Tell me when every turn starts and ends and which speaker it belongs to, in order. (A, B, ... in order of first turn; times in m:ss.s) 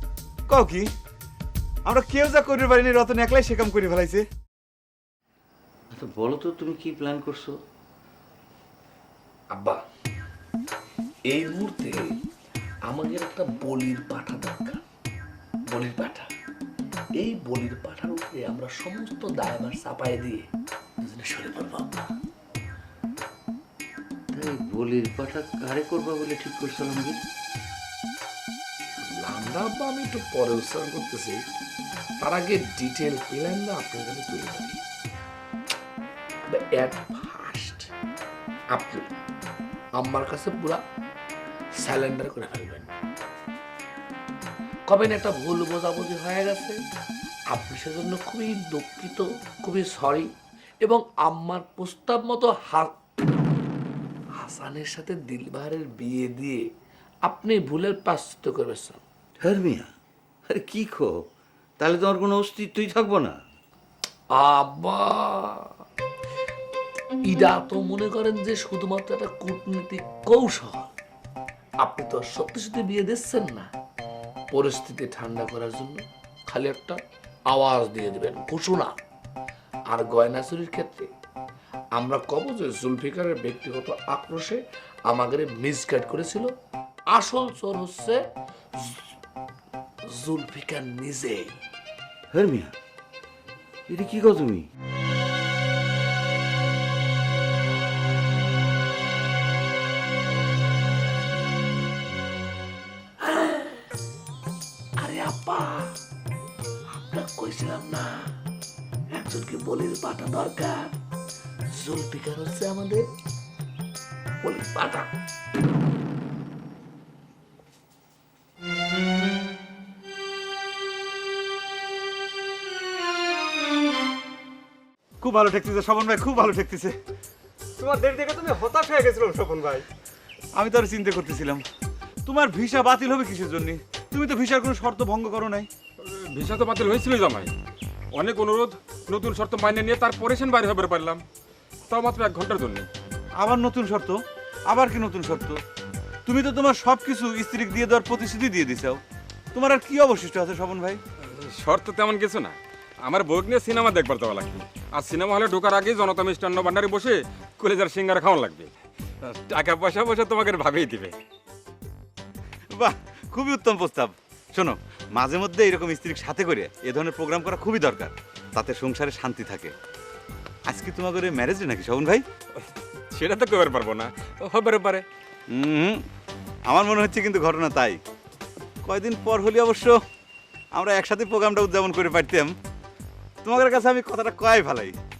0:00.5-0:00.9 A
0:01.8-0:04.2 A
0:05.9-0:07.6 B
0:09.5-0:09.8 C
0:11.3-0:12.2 C
0:12.9-0:14.8 C
0:15.7-0:16.3 C
0:17.2-0:20.5 C
0:21.0-0:22.1 C
0:24.3-0:27.2 B
0:29.0-0:31.4 C
0:32.2-0:34.8 C
0:36.5-0:37.9 C
0:38.7-0:39.1 C
0:40.0-0:40.8 C
0:41.8-0:42.9 C
0:44.9-0:46.8 C
0:47.5-0:50.3 C
0:50.8-0:52.9 C
0:54.4-0:56.6 C
0:57.3-0:59.0 C
0:59.4-0:59.9 B
1:00.5-1:01.1 B
1:01.8-1:03.4 B
1:04.4-1:05.5 C
1:07.3-1:10.9 C
1:11.8-1:13.7 C
1:14.5-1:17.0 C
1:17.5-1:19.0 C
1:19.9-1:21.1 C
1:22.0-1:26.5 C
1:27.1-1:28.2 C
1:30.1-1:31.6 C
1:32.3-1:32.7 B
1:33.9-1:34.7 B
1:43.3-1:43.6 C
1:45.0-1:45.9 C
1:47.1-1:48.3 C
1:49.1-1:50.9 C
1:51.7-1:53.1 C
1:54.4-1:55.1 C
2:05.2-2:06.9 A
2:07.8-2:09.8 D
2:10.6-2:11.6 A
2:12.2-2:15.7 A
2:16.0-2:17.5 E
2:18.1-2:21.2 E
2:21.9-2:22.9 E
2:23.4-2:25.6 A
2:26.2-2:29.0 A
2:29.5-2:31.0 A
2:31.3-2:38.7 E
2:39.2-2:41.2 E
2:42.7-2:49.7 A
2:50.7-2:52.2 A
2:53.1-2:55.0 E
2:55.5-2:56.0 A
2:56.7-2:58.0 A
2:58.8-3:00.0 A
3:00.7-3:02.5 A
3:03.4-3:05.0 A